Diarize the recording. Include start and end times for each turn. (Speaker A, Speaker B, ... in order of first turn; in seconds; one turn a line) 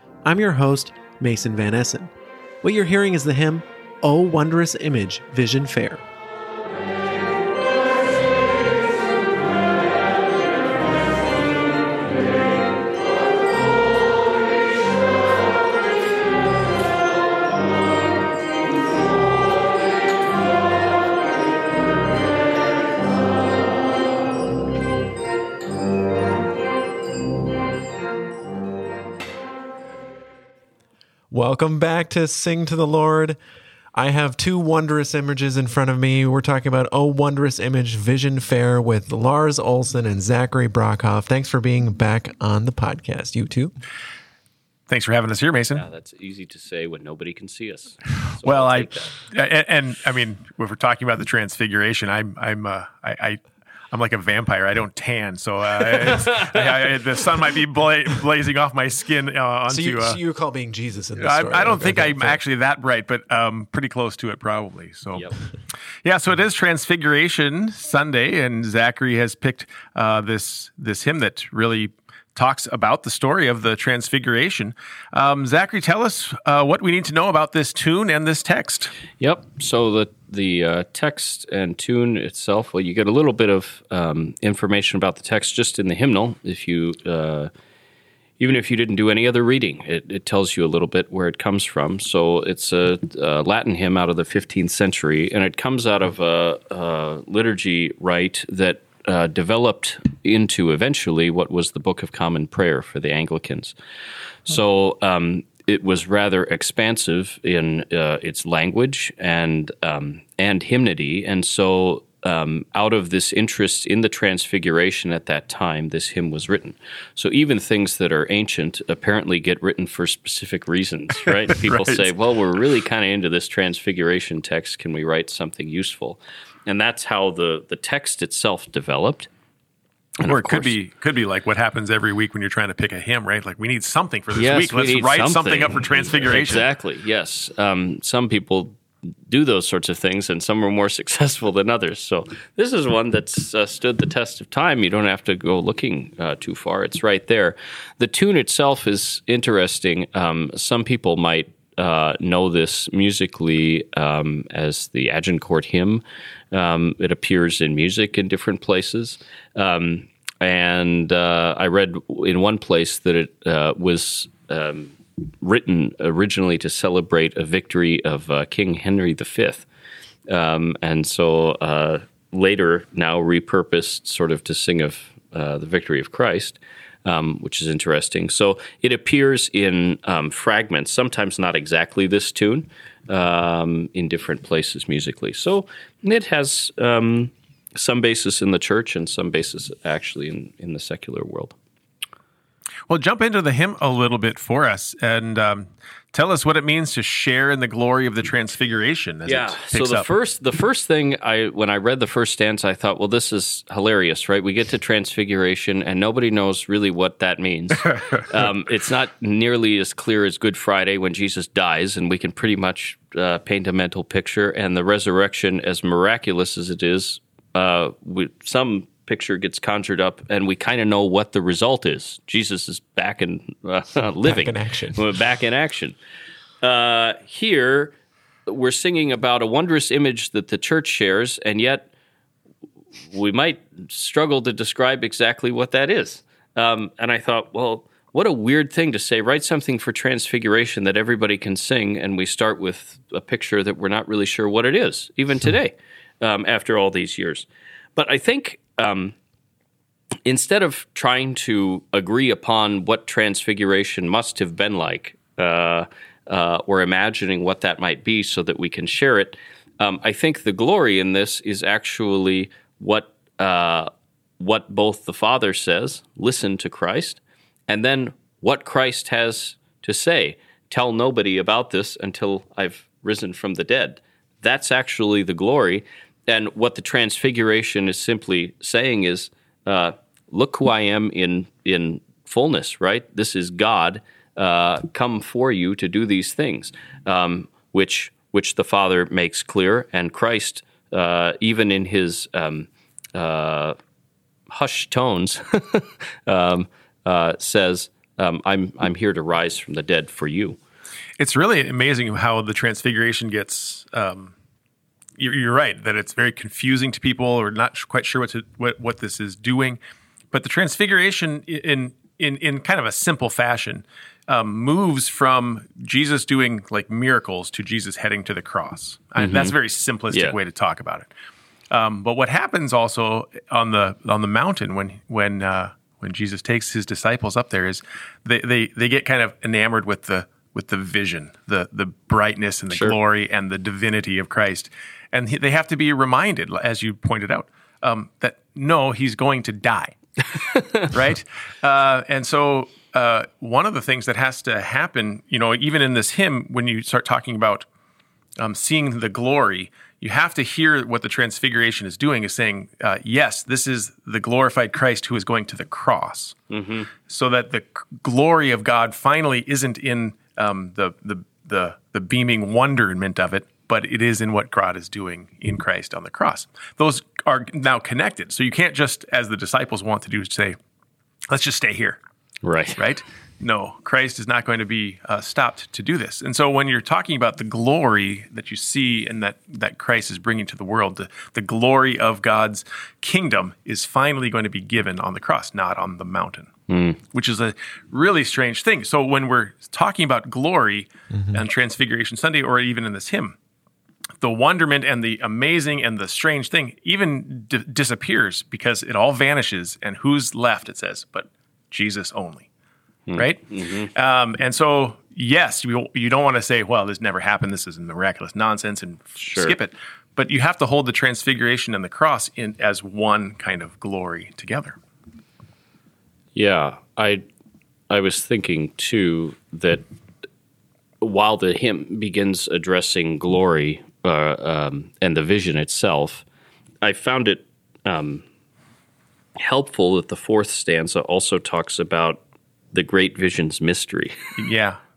Speaker A: 0.2-2.1
Speaker A: 2.6-6.0
Speaker A: 31.3-33.4
Speaker A: 34.0-43.7
Speaker B: 44.9-45.8
Speaker C: 45.8-49.2
Speaker B: 48.4-60.2
Speaker C: 56.0-56.5
Speaker A: 59.7-62.4
Speaker B: 61.2-65.3
Speaker B: 66.0-78.9
Speaker C: 79.2-87.5
Speaker C: 88.4-103.8
Speaker C: 104.5-129.3
Speaker B: 121.6-122.1
Speaker C: 130.2-130.8
Speaker B: 130.2-136.7
Speaker C: 134.3-169.7
Speaker C: 170.3-191.6
Speaker B: 192.9-200.1
Speaker C: 199.3-226.0
Speaker A: 224.2-225.0
Speaker C: 226.6-227.9
Speaker C: 228.5-231.9
Speaker C: 233.1-249.2
Speaker C: 250.2-293.8
Speaker C: 294.5-300.6
Speaker B: 301.2-304.3
Speaker B: 305.2-309.8
Speaker B: 310.3-321.1
Speaker C: 319.2-319.6
Speaker B: 321.7-339.9
Speaker C: 332.7-333.0
Speaker B: 340.9-347.7
Speaker B: 348.4-356.4
Speaker C: 356.5-356.9
Speaker B: 357.1-370.6
Speaker B: 371.3-372.0
Speaker C: 372.4-372.8
Speaker B: 372.8-386.5
Speaker C: 386.7-387.0
Speaker B: 387.1-393.4
Speaker B: 394.2-402.5
Speaker C: 403.1-403.9
Speaker B: 403.1-414.8
Speaker C: 409.2-409.6
Speaker C: 416.4-417.2
Speaker C: 417.9-419.9
Speaker C: 421.0-426.2
Speaker C: 426.8-428.2
Speaker C: 429.4-432.2
Speaker C: 432.7-434.1
Speaker B: 434.4-434.8